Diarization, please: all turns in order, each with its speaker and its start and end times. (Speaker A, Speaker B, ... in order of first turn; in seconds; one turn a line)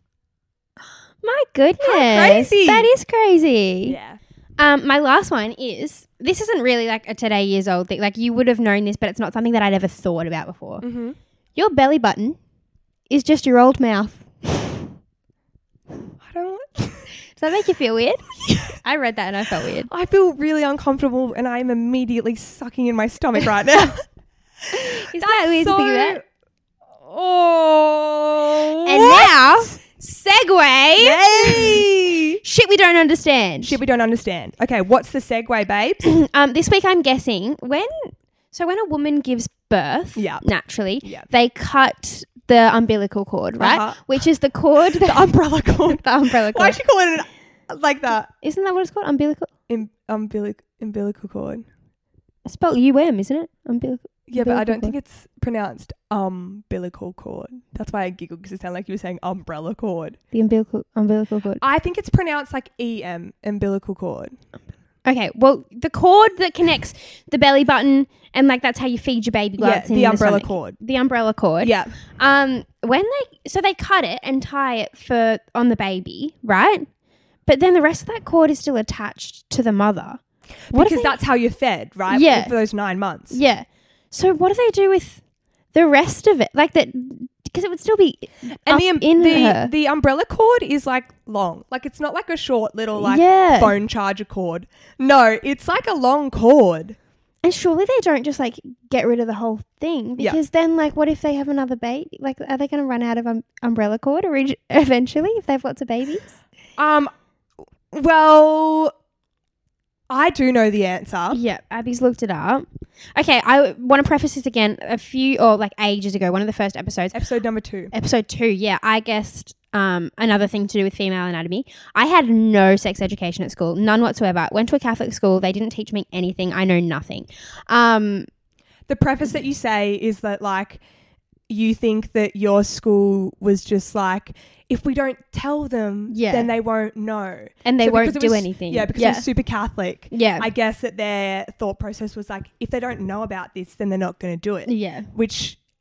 Speaker A: 1.2-4.0
Speaker B: 1.8-2.9
Speaker B: 3.9-4.2
Speaker A: 4.6-10.8
Speaker B: 10.8-11.2
Speaker A: 11.6-12.4
Speaker A: 13.1-14.8
Speaker B: 16.2-17.1
Speaker A: 17.3-19.9
Speaker B: 18.5-18.8
Speaker B: 19.9-24.1
Speaker B: 24.7-26.2
Speaker A: 24.7-26.2
Speaker B: 26.9-29.8
Speaker A: 28.9-31.8
Speaker B: 31.0-32.4
Speaker A: 32.4-33.8
Speaker B: 33.6-36.0
Speaker A: 36.0-45.3
Speaker B: 40.2-40.5
Speaker B: 41.0-41.3
Speaker B: 43.6-44.2
Speaker B: 44.9-48.3
Speaker A: 45.9-46.8
Speaker A: 48.4-49.5
Speaker B: 49.7-51.7
Speaker A: 52.5-54.9
Speaker B: 54.3-60.2
Speaker A: 60.3-61.6
Speaker B: 61.6-64.4
Speaker A: 65.0-76.9
Speaker B: 69.6-70.8
Speaker B: 71.6-72.0
Speaker A: 77.5-80.2
Speaker B: 80.7-83.4
Speaker A: 80.7-81.2
Speaker A: 82.1-82.5
Speaker A: 83.3-85.2
Speaker A: 85.7-89.7
Speaker B: 88.7-97.0
Speaker A: 93.0-93.7
Speaker A: 97.4-106.4
Speaker B: 106.8-107.1
Speaker B: 107.9-108.9
Speaker B: 110.1-111.4
Speaker A: 111.3-117.2
Speaker B: 117.1-117.9
Speaker A: 117.9-128.3
Speaker B: 128.9-130.8
Speaker B: 131.5-145.6
Speaker A: 136.1-136.5
Speaker A: 137.7-139.3
Speaker A: 140.1-140.5
Speaker A: 144.7-145.1